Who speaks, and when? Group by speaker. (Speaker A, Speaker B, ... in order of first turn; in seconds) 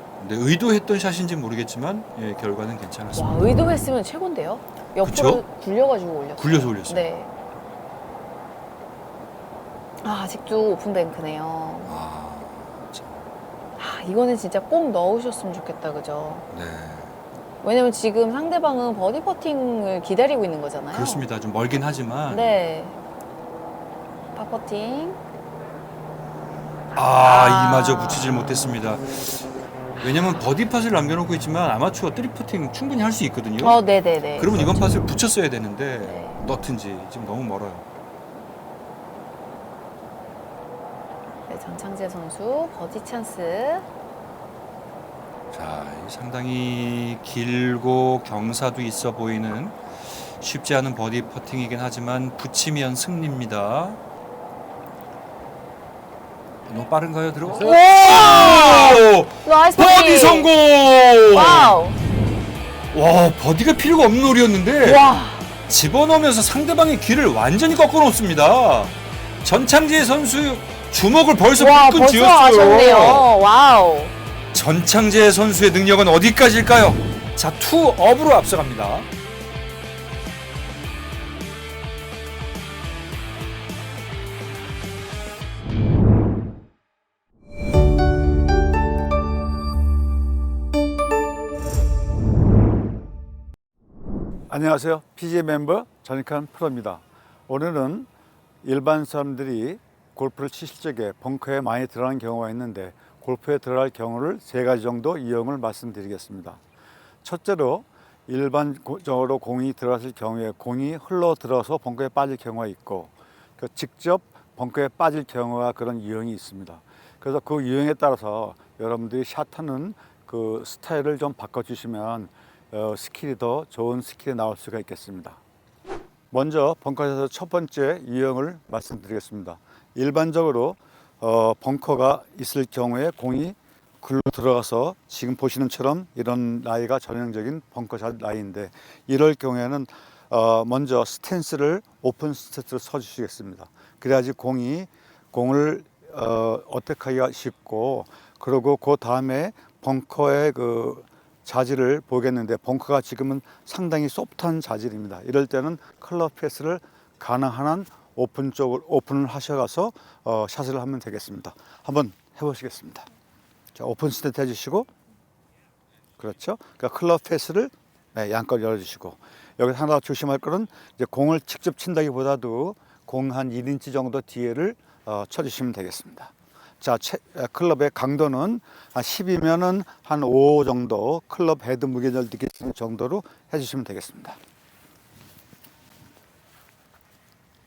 Speaker A: 0.2-3.7, 5.0-5.4, 6.3-7.0, 11.8-13.3, 16.5-17.2, 20.9-22.5, 26.9-29.4, 30.0-33.8, 34.4-37.8, 45.5-49.8, 50.4-54.0, 56.6-61.8, 62.9-65.0, 65.7-73.3, 74.5-79.1
Speaker B: 3.1-7.3, 10.0-12.0, 13.8-16.4, 17.6-21.2, 22.3-23.0, 24.3-25.2, 27.2-28.5, 33.6-35.1, 36.0-36.4, 41.5-43.8, 57.5-60.5, 61.3-62.0, 64.8-65.5, 71.5-74.1
Speaker C: 94.5-98.1, 98.6-106.6, 107.2-125.4, 126.3-163.1, 163.7-164.9, 166.2-184.4